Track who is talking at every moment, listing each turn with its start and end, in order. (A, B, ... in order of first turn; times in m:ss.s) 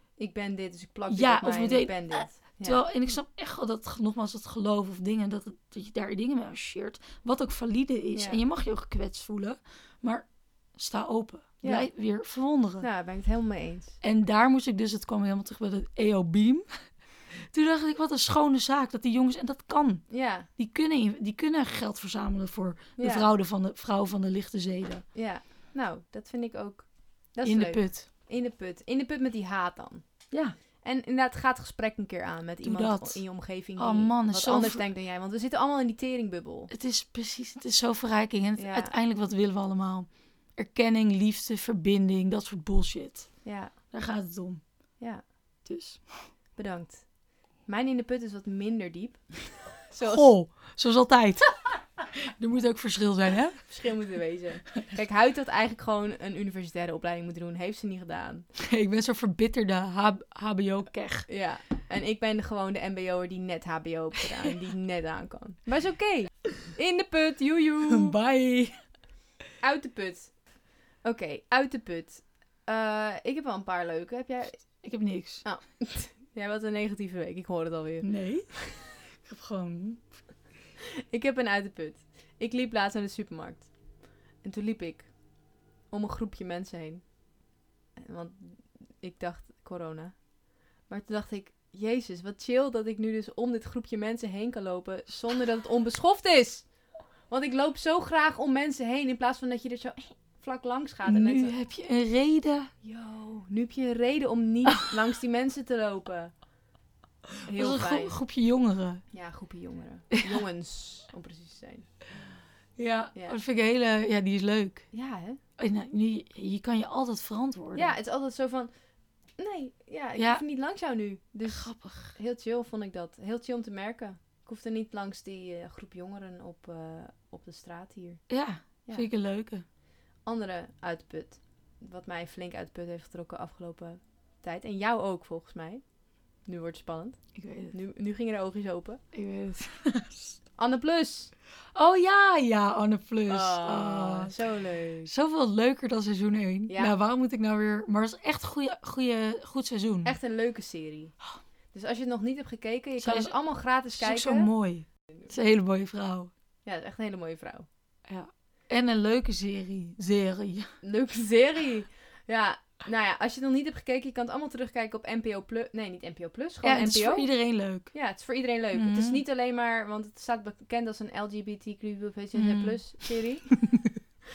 0:00.2-0:02.8 A
0:01.1-0:12.8 B
0:11.6-0:11.9 A
0:12.8-0:14.0 A
0:14.0-0:17.0 B
0:17.5-0:25.0 B
0:20.1-0:20.5 A
0:23.0-0:23.3 A
0:25.1-0:36.7 A
0:27.4-0:28.1 B
0:30.3-0:30.6 B
0:32.6-0:33.2 B
0:33.8-0:34.8 B
0:36.7-0:44.7 B
0:38.6-0:38.9 A
0:43.4-0:43.7 A
0:45.0-0:45.2 A
0:45.6-0:46.3 B
0:46.6-0:50.3 A
0:50.0-0:51.8 B
0:52.4-0:53.7 B
0:53.7-0:58.5 A
0:58.7-1:01.3 B
1:01.3-1:08.1 A
1:07.9-1:08.8 B
1:09.6-1:14.8 A
1:14.8-1:15.4 B
1:15.4-1:18.6 A
1:18.0-1:20.1 B
1:21.1-1:23.7 A
1:24.4-1:25.1 A
1:25.9-1:27.0 A
1:28.0-1:30.2 A
1:30.8-1:36.7 A
1:37.3-1:41.5 A
1:41.0-1:42.7 B
1:42.8-1:46.3 A
1:47.5-1:48.2 A
1:47.5-1:49.0 B
1:49.1-1:51.9 A
1:52.8-1:54.9 B
1:54.9-1:55.4 A
1:55.6-1:58.0 B
1:57.7-1:58.7 A
1:59.4-2:08.2 A
2:00.2-2:00.4 B
2:01.5-2:02.1 B
2:08.3-2:09.6 B
2:10.2-2:15.8 A
2:16.4-2:19.0 A
2:17.4-2:17.7 B
2:19.1-2:20.4 B
2:20.6-2:21.3 A
2:21.7-2:24.3 B
2:23.3-2:25.1 A
2:25.0-2:30.1 B
2:26.7-2:26.9 A
2:30.0-2:31.2 A
2:31.7-2:34.5 A
2:33.0-2:33.3 B
2:33.9-2:36.3 B
2:36.6-2:37.6 A
2:38.1-2:40.7 B
2:40.8-2:47.3 A
2:46.6-2:47.9 B
2:47.9-2:53.7 A
2:48.7-2:49.2 B
2:52.3-2:53.1 B